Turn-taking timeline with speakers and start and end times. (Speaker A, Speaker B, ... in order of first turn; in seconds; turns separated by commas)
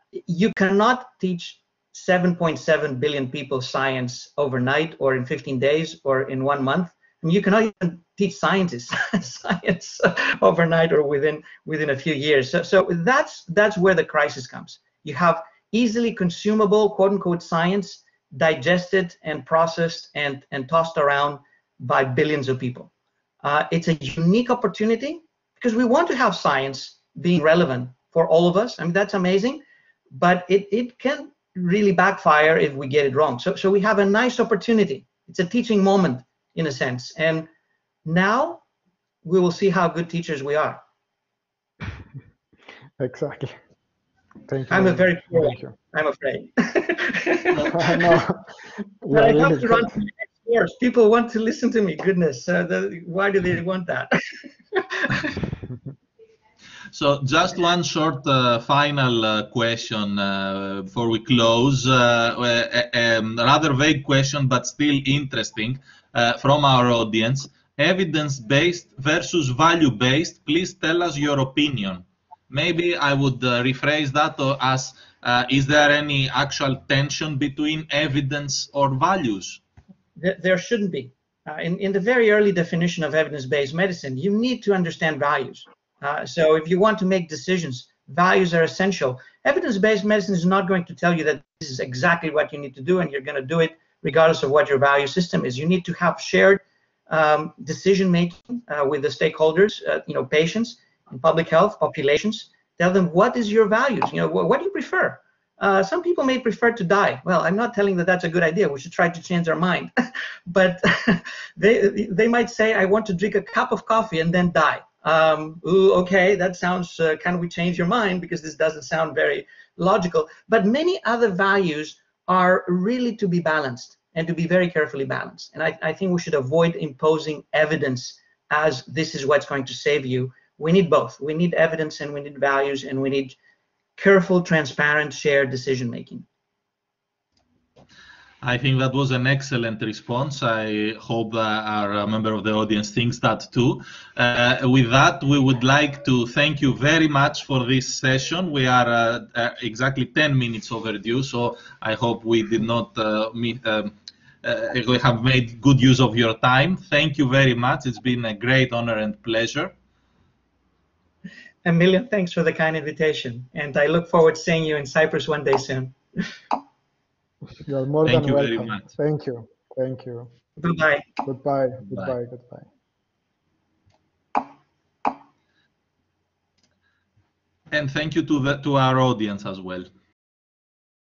Speaker A: 0.1-22.9, Speaker A: 23.4-37.5, Speaker A: 38.0-38.6, Speaker A: 39.2-40.8, Speaker B: 43.0-43.6, Speaker B: 44.5-45.8, Speaker A: 44.7-48.2, Speaker B: 47.7-49.9, Speaker A: 49.1-54.1, Speaker A: 54.7-55.3, Speaker C: 56.9-79.6, Speaker A: 80.2-109.9, Speaker A: 110.5-133.4, Speaker A: 134.0-136.3, Speaker C: 138.4-159.7, Speaker A: 161.6-166.0, Speaker B: 167.6-170.3, Speaker C: 168.1-168.9, Speaker A: 170.6-171.1, Speaker B: 171.2-172.7, Speaker C: 177.7-179.9